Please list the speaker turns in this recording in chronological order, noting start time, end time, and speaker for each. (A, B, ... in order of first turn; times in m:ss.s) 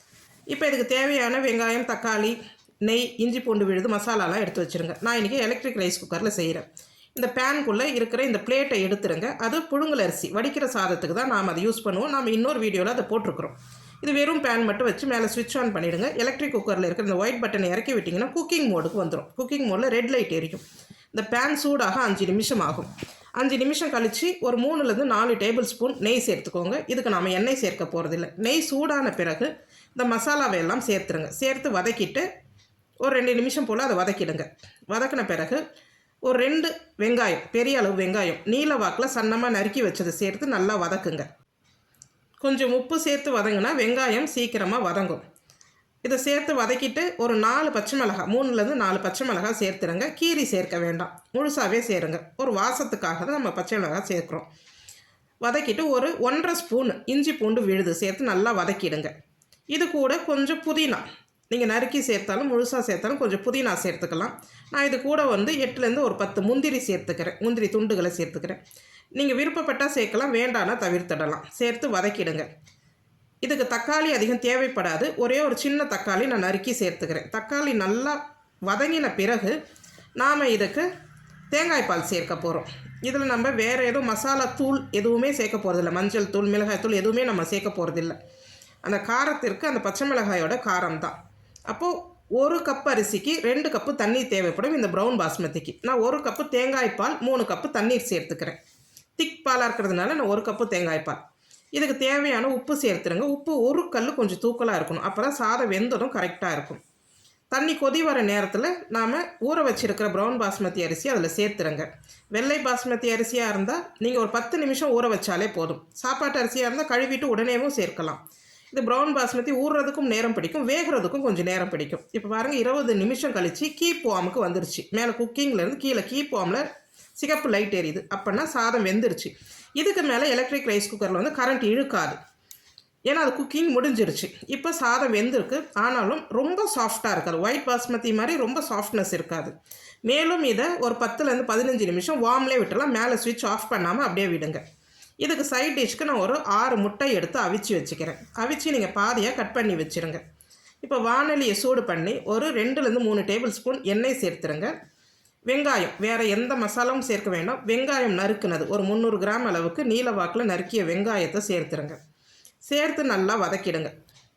0:00.5-0:32.2 A
0:33.0-0:35.6 A
0:36.2-0:41.3 A
0:42.4-0:45.2 A
0:46.0-0:54.4 A
0:55.4-0:59.1 A
0:59.7-1:08.6 A
1:09.2-1:12.5 A
1:13.4-1:19.6 A
1:20.2-1:20.8 A
1:21.5-1:28.2 A
1:28.8-1:31.2 A
1:31.7-1:38.6 A
1:39.2-1:41.2 A
1:41.7-1:46.8 A
1:47.5-1:58.2 A
1:58.7-2:06.6 A
2:07.2-2:12.2 A
2:13.1-2:19.5 A
2:20.1-2:24.6 A
2:25.2-2:30.2 A
2:30.8-2:34.7 A
2:35.5-2:42.0 A
2:42.6-2:43.9 A